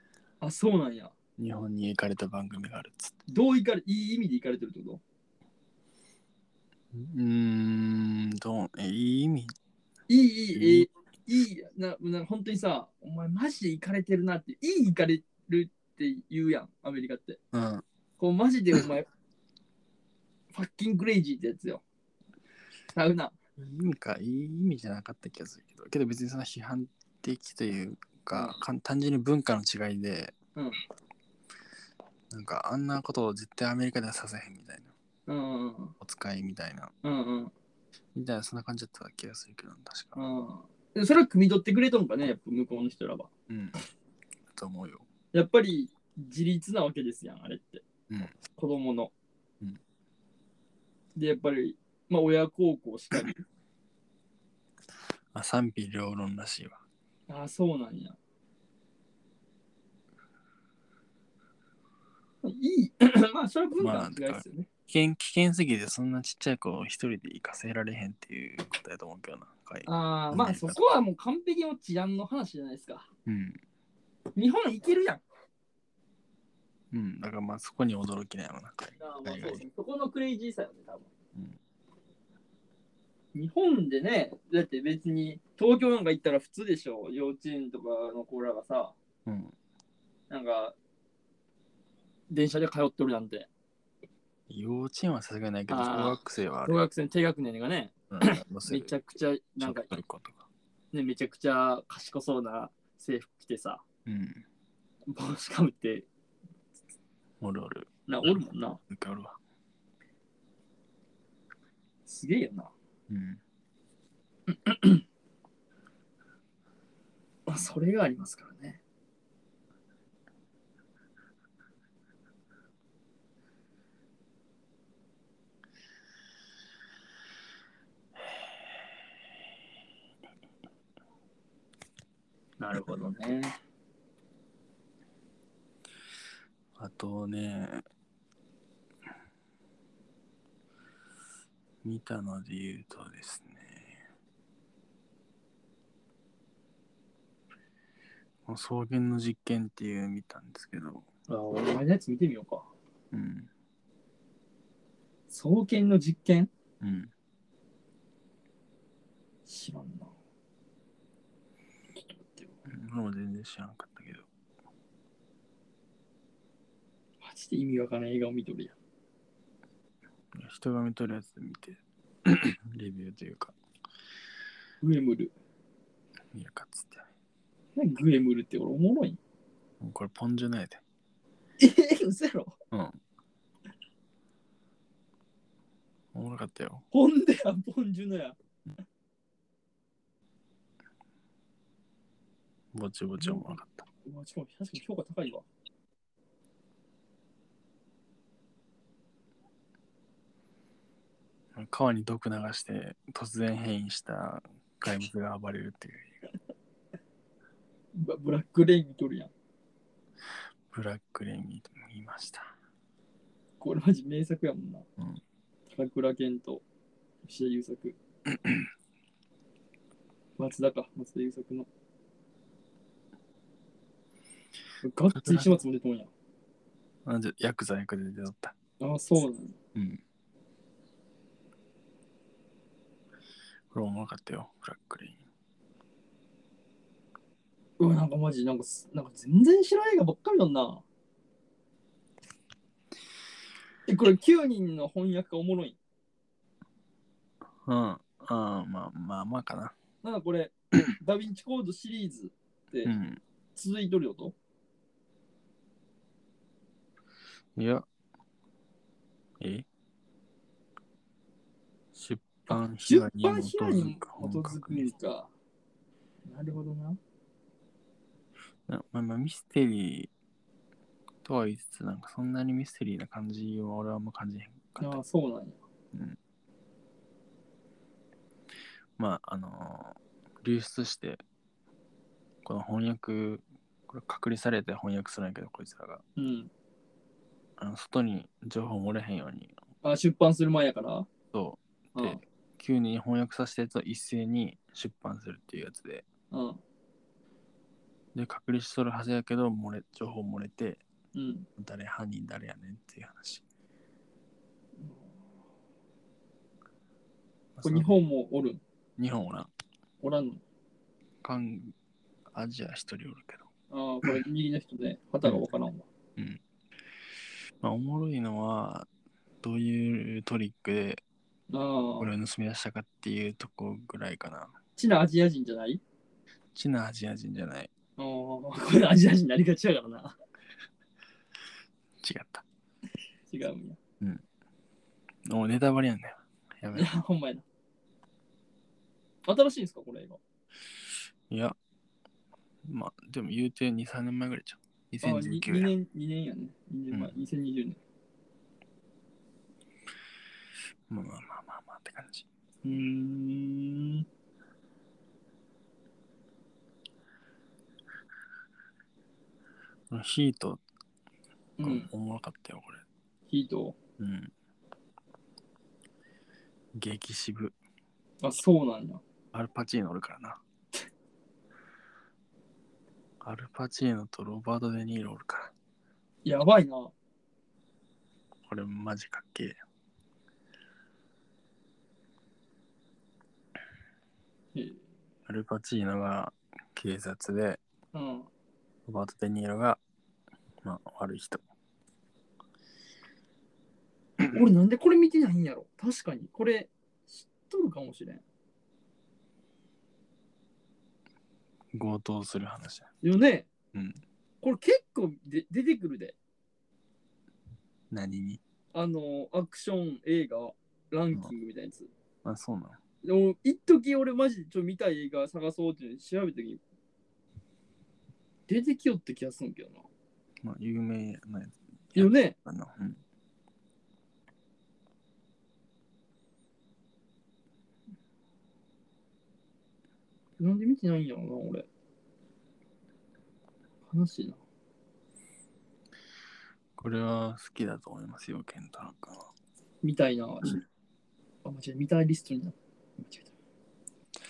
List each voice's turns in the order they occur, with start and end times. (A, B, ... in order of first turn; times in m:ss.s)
0:00.4-0:01.1 A
0:01.4-0:03.2 B
0:03.3-0:05.0 A
0:06.9-0:09.6 B
0:10.1-0:17.4 A
0:10.6-0:10.9 B
0:17.5-0:17.8 B
0:18.2-0:19.1 A
0:20.5-0:21.8 A
0:22.9-0:23.4 A
0:23.6-0:30.4 B
0:28.3-0:28.6 A
0:32.3-0:34.9 B
0:35.3-0:36.0 A
0:36.0-0:36.9 B
0:37.0-0:37.5 A
0:38.2-0:40.2 B
0:40.2-0:43.3 A
0:43.5-0:43.8 B
0:44.5-0:45.0 B
0:45.3-0:47.8 A
0:48.1-0:48.3 B
0:48.5-0:49.1 A
0:51.2-0:53.4 A
0:55.3-0:56.8 B
0:57.3-0:58.2 A
1:02.4-1:04.7 A
1:03.8-1:10.8 B
1:09.8-1:13.1 A
1:13.3-1:13.6 B
1:14.4-1:15.2 A
1:16.9-1:19.6 B
1:19.0-1:21.1 A
1:23.3-1:29.0 A
1:29.3-1:29.6 B
1:30.3-1:30.8 A
1:32.3-1:33.5 A
1:34.5-1:36.8 B
1:35.7-1:39.9 A
1:38.1-1:38.9 B
1:39.6-1:40.5 B
1:40.9-1:43.8 A
1:44.1-1:44.4 B
1:45.1-1:46.1 A
1:47.4-1:47.9 B
1:48.1-1:48.8 A
1:48.9-1:49.4 B
1:52.1-1:52.7 A
1:53.1-1:53.4 B
1:54.5-1:55.0 A
1:57.5-1:58.8 A
2:12.6-2:13.6 A
2:16.8-2:17.8 B
2:21.8-2:24.0 B
2:28.5-2:31.1 B
2:31.3-2:32.7 A
2:33.1-2:33.5 B
2:35.3-2:36.5 A
2:36.8-2:37.1 B
2:39.5-2:40.1 A
2:42.2-2:42.5 A
2:42.7-2:44.3 B
2:47.2-2:48.8 A
2:50.3-2:53.6 B
2:54.8-2:55.3 A
2:56.3-2:57.1 B
2:57.8-2:59.2 A
2:59.8-3:00.8 B
3:01.6-3:02.6 A
3:02.7-3:03.0 B
3:06.1-3:06.8 B
3:06.9-3:08.4 A
3:12.7-3:13.8 B
3:13.2-3:15.5 A
3:21.5-3:26.2 B
3:28.0-3:29.3 A
3:30.7-3:32.5 B
3:33.6-3:34.9 A
3:35.7-3:36.6 A
3:37.2-3:38.0 A
3:38.3-3:38.7 B
3:40.4-3:41.7 A
3:44.8-3:46.1 A
3:45.1-3:45.6 B
3:47.0-3:48.6 B
3:48.8-3:49.6 A
3:49.8-3:50.0 B
3:53.7-3:55.2 B
3:57.8-4:00.8 A
4:03.9-4:05.8 A
4:07.6-4:09.8 B
4:10.0-4:12.9 A
4:12.8-4:13.2 B
4:13.6-4:14.4 A
4:17.6-4:17.9 B
4:19.4-4:19.7 B
4:21.9-4:24.9 B
4:22.5-4:25.3 A
4:26.3-4:27.0 A
4:28.7-4:30.1 B
4:31.2-4:35.0 B
4:34.8-4:35.6 A
4:35.9-4:36.2 B
4:39.0-4:41.2 B
4:42.4-4:46.0 B
4:46.2-4:46.5 A
4:47.6-4:49.5 B
4:49.8-4:51.1 A
4:51.3-4:56.0 B
4:52.0-4:52.2 A
4:56.3-4:56.6 A
4:58.1-5:00.8 B
5:01.1-5:01.5 A
5:01.6-5:03.4 B
5:04.8-5:05.1 A
5:07.6-5:07.9 B
5:07.6-5:08.6 A
5:09.0-5:09.5 B
5:10.0-5:10.4 A
5:11.2-5:11.7 B
5:12.3-5:13.5 B
5:13.7-5:15.9 A
5:17.6-5:18.9 B
5:19.4-5:21.0 B
5:21.5-5:22.1 A
5:22.0-5:24.6 B
5:24.8-5:25.8 A
5:26.5-5:27.7 B
5:28.0-5:30.2 A
5:32.0-5:32.4 B
5:33.3-5:33.8 A
5:35.3-5:36.9 B
5:36.7-5:37.4 A
5:39.3-5:40.2 A
5:41.3-5:41.6 B
5:42.6-5:45.7 B
5:45.0-5:47.8 A
5:50.9-5:52.3 B
5:52.6-5:54.1 A
5:59.9-6:00.6 B
6:01.6-6:01.9 A
6:01.6-6:02.8 B
6:03.3-6:03.8 A
6:04.0-6:04.3 B
6:06.8-6:07.6 B
6:08.2-6:09.0 A
6:09.3-6:10.4 B
6:13.2-6:15.5 B
6:16.2-6:16.9 A
6:18.5-6:19.6 B
6:24.6-6:24.8 A
6:25.3-6:27.6 B
6:27.9-6:28.3 A
6:28.9-6:29.8 B
6:30.6-6:31.4 B
6:34.3-6:38.2 A
6:41.7-6:42.9 B
6:43.0-6:43.5 A
6:43.7-6:44.0 B
6:44.4-6:46.2 A
6:47.9-6:48.4 B
6:48.7-6:51.9 A
6:52.2-6:52.8 B
6:53.0-6:56.6 A
6:58.5-6:59.9 A
7:00.4-7:03.0 B
7:02.0-7:02.4 A
7:10.4-7:11.7 A
7:13.9-7:14.4 A
7:16.8-7:19.3 B
7:19.8-7:20.6 A
7:21.4-7:23.3 A